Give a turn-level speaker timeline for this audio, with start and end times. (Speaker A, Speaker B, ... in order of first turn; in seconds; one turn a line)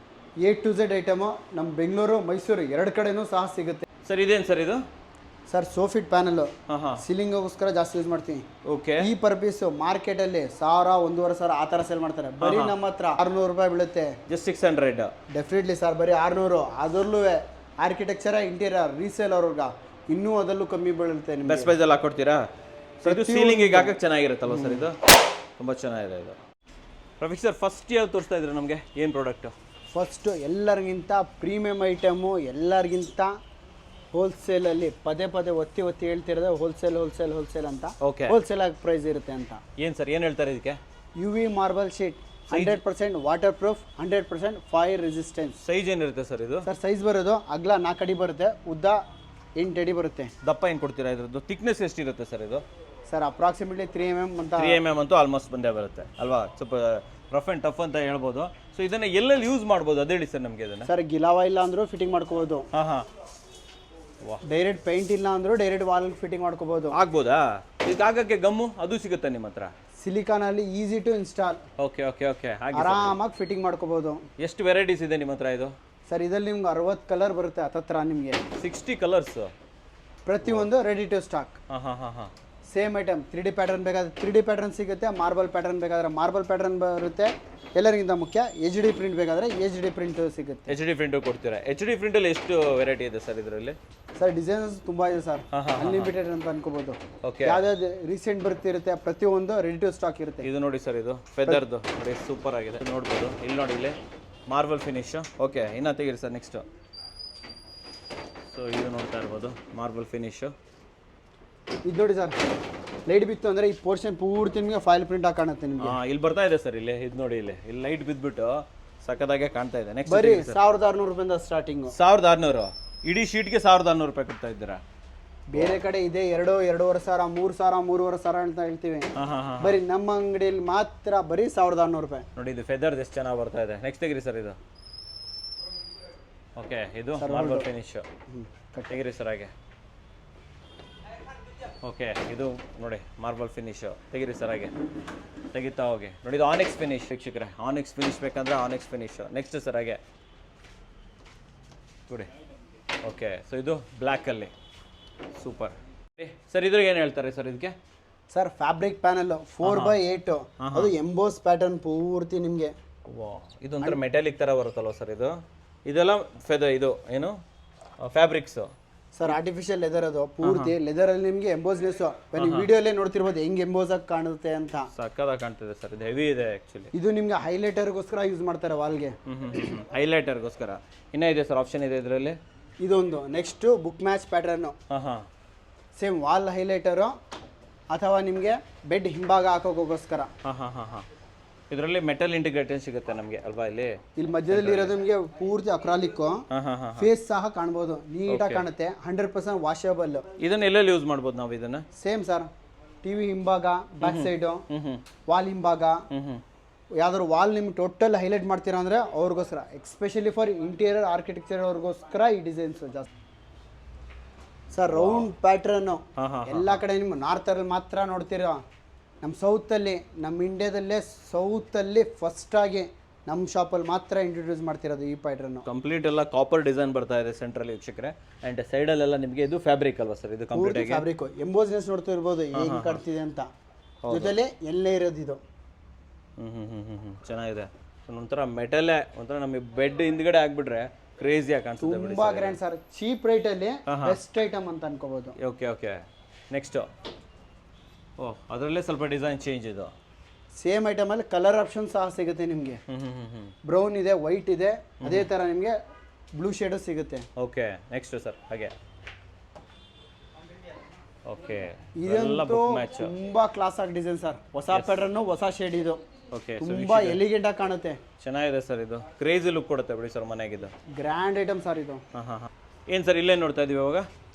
Speaker A: 0.4-3.9
Speaker B: 4.0-4.8
Speaker A: 5.5-8.4
Speaker B: 6.7-7.0
Speaker B: 8.6-9.1
Speaker A: 9.0-14.2
Speaker B: 12.4-12.7
Speaker B: 14.3-15.1
Speaker A: 15.3-21.7
Speaker B: 21.4-22.4
Speaker B: 23.0-25.0
Speaker A: 23.0-24.0
Speaker A: 24.5-24.9
Speaker B: 25.6-26.4
Speaker B: 27.2-29.5
Speaker A: 29.9-33.3
Speaker A: 34.1-39.6
Speaker B: 38.0-38.4
Speaker B: 39.8-40.8
Speaker A: 41.2-45.6
Speaker B: 42.5-42.8
Speaker B: 45.6-46.7
Speaker A: 46.6-49.0
Speaker A: 49.6-50.3
Speaker B: 50.4-52.6
Speaker A: 53.1-54.8
Speaker B: 54.5-60.9
Speaker A: 60.9-62.7
Speaker B: 62.7-63.0
Speaker A: 64.4-67.0
Speaker B: 66.9-69.7
Speaker A: 70.0-71.6
Speaker B: 71.8-73.2
Speaker A: 72.7-74.2
Speaker B: 74.4-75.7
Speaker A: 76.1-78.4
Speaker B: 78.6-79.5
Speaker A: 80.2-81.6
Speaker B: 80.4-80.7
Speaker B: 81.7-82.3
Speaker A: 82.7-90.7
Speaker B: 90.7-93.8
Speaker A: 94.2-100.5
Speaker B: 95.5-96.1
Speaker B: 97.2-97.6
Speaker B: 100.4-104.0
Speaker B: 104.5-106.6
Speaker B: 108.5-110.5
Speaker A: 111.8-112.3
Speaker A: 113.1-115.9
Speaker B: 115.8-120.6
Speaker A: 120.1-121.9
Speaker B: 121.9-124.8
Speaker A: 125.5-132.2
Speaker B: 125.5-125.8
Speaker B: 129.1-129.8
Speaker B: 132.3-134.6
Speaker B: 136.6-138.0
Speaker A: 137.2-137.7
Speaker A: 138.3-139.0
Speaker B: 138.9-139.5
Speaker B: 141.8-144.7
Speaker B: 145.5-150.0
Speaker B: 153.0-154.5
Speaker B: 155.3-157.8
Speaker A: 158.3-162.7
Speaker B: 159.6-160.0
Speaker B: 160.6-160.9
Speaker B: 163.1-167.4
Speaker B: 168.0-168.7
Speaker A: 169.1-174.9
Speaker B: 170.4-170.7
Speaker B: 172.3-172.7
Speaker B: 174.9-176.9
Speaker A: 176.9-179.2
Speaker B: 179.2-182.4
Speaker A: 182.8-184.7
Speaker B: 184.9-185.3
Speaker A: 185.9-187.1
Speaker A: 187.9-190.3
Speaker B: 190.4-191.0
Speaker B: 191.7-195.0
Speaker A: 194.2-196.4
Speaker B: 196.5-197.1
Speaker A: 197.0-200.2
Speaker B: 198.3-198.7
Speaker B: 200.4-201.8
Speaker A: 201.9-202.5
Speaker A: 203.0-204.6
Speaker B: 204.0-205.0
Speaker A: 205.3-206.1
Speaker B: 206.1-206.4
Speaker A: 207.0-213.1
Speaker A: 214.7-218.6
Speaker B: 214.9-215.3
Speaker B: 216.2-216.8
Speaker A: 219.2-225.7
Speaker B: 225.7-231.1
Speaker A: 230.5-233.5
Speaker B: 232.5-233.0
Speaker B: 234.0-234.3
Speaker A: 234.1-235.4
Speaker B: 236.4-242.6
Speaker A: 241.8-245.3
Speaker B: 243.9-244.2
Speaker B: 245.4-246.9
Speaker B: 248.2-249.9
Speaker A: 250.5-252.8
Speaker B: 252.9-253.5
Speaker A: 253.7-255.8
Speaker B: 255.0-255.3
Speaker A: 256.3-257.3
Speaker B: 257.4-258.7
Speaker B: 261.2-263.1
Speaker A: 262.0-266.0
Speaker B: 266.3-267.2
Speaker A: 266.6-268.0
Speaker B: 268.2-270.7
Speaker A: 271.0-272.0
Speaker B: 272.1-274.1